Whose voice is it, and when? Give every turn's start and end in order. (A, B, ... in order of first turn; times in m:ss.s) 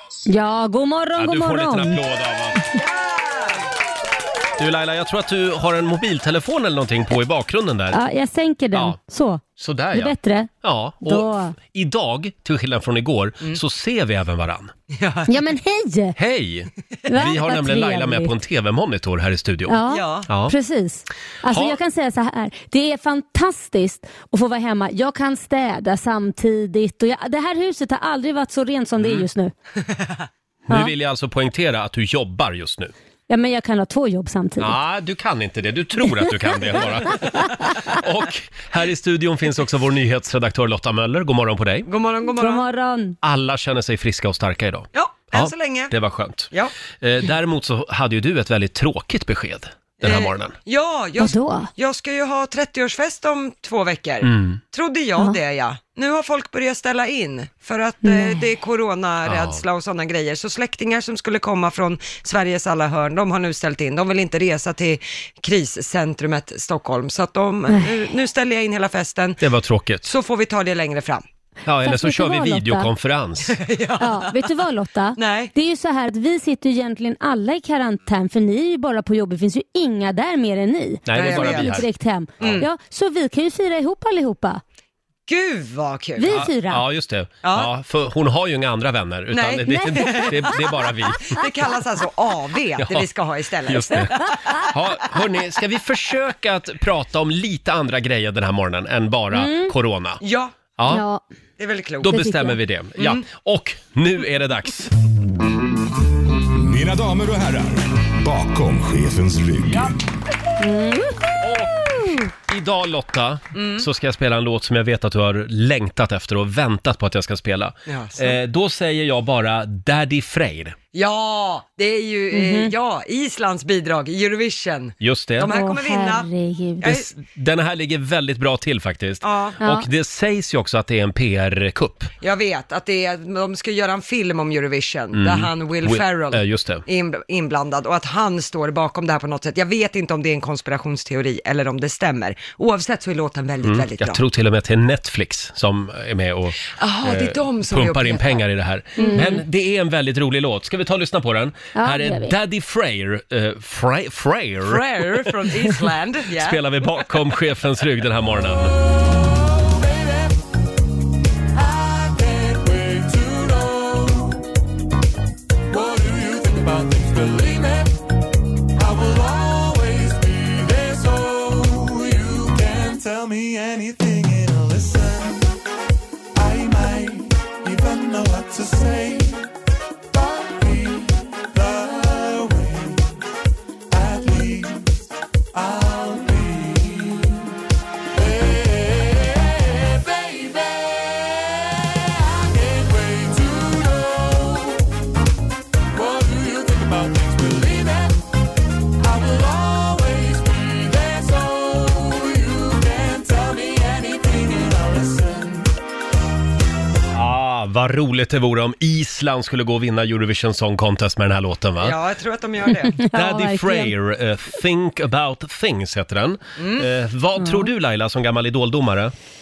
0:00.3-0:02.0 A
0:01.2-0:02.6 B
0:02.8-0:03.6 C
0:04.6-0:08.0 B
0:07.9-0:10.5 A
0:08.7-0:09.0 B
0:09.6-0:14.7 B
0:11.0-0:11.6 A
0:14.9-0:15.4 C
0:15.3-0:16.2 A
0:16.2-0:19.8 B
0:17.1-0:18.3 A
0:19.7-0:29.5 A
0:19.9-0:20.3 C
0:20.3-0:20.6 B
0:21.5-0:21.8 B
0:29.0-0:29.2 B
0:29.9-0:30.3 C
0:30.7-0:32.9 B
0:33.3-0:34.8 A
0:34.6-0:41.9 B
0:36.3-0:37.6 A
0:41.9-0:42.7 C
0:42.4-0:43.2 A
0:43.2-0:46.5 B
0:44.9-0:45.9 C
0:47.0-0:50.6 B
0:50.0-1:09.4 C
0:51.2-0:51.7 A
0:54.2-0:54.6 B
0:58.0-0:58.4 A
0:59.3-0:59.6 B
1:09.4-1:10.1 B
1:10.0-1:11.2 C
1:11.7-1:13.6 B
1:11.8-1:12.9 A
1:13.5-1:14.5 C
1:14.0-1:24.6 A
1:15.2-1:15.5 C
1:21.1-1:21.9 B
1:21.2-1:21.8 C
1:22.4-1:22.7 C
1:25.3-1:26.4 C
1:26.2-1:26.8 A
1:26.3-1:31.4 B
1:27.4-1:27.7 C
1:29.3-1:30.7 C
1:29.9-1:30.4 A
1:31.2-1:34.6 C
1:32.8-1:33.1 B
1:33.6-1:40.2 B
1:39.3-1:39.8 A
1:40.2-1:40.6 C
1:40.8-1:41.0 B
1:40.9-1:41.2 A
1:41.6-1:42.2 C
1:42.0-1:44.9 B
1:42.1-1:42.6 A
1:43.0-1:43.2 C
1:46.6-1:50.0 D
1:50.6-1:51.3 A
1:51.4-2:00.8 B
1:53.5-1:53.9 C
1:57.9-1:58.4 C
2:00.9-2:06.3 C
2:02.3-2:02.7 A
2:05.0-2:05.5 B
2:05.5-2:07.0 A
2:06.8-2:07.1 C
2:07.2-2:12.1 B
2:09.2-2:09.6 C
2:09.6-2:09.9 A
2:12.2-2:24.2 C
2:15.1-2:16.8 B
2:23.6-2:35.8 B
2:26.8-2:28.4 C
2:29.0-2:29.4 A
2:29.0-2:29.4 C
2:31.8-2:32.4 A
2:34.6-2:36.6 C
2:36.3-2:38.7 B
2:39.0-2:40.3 E
2:41.5-2:44.4 E
2:45.7-2:47.9 E
2:48.8-2:55.5 E
2:56.4-2:59.4 E
3:00.1-3:03.2 E
3:03.9-3:05.0 E
3:05.5-3:07.5 E
3:08.2-3:14.9 E
3:15.9-3:18.2 E
3:19.0-3:25.7 E
3:27.1-3:32.0 B
3:31.8-3:33.0 C
3:33.0-3:33.9 A
3:33.1-3:39.1 B
3:36.6-3:36.9 C
3:37.4-3:37.7 A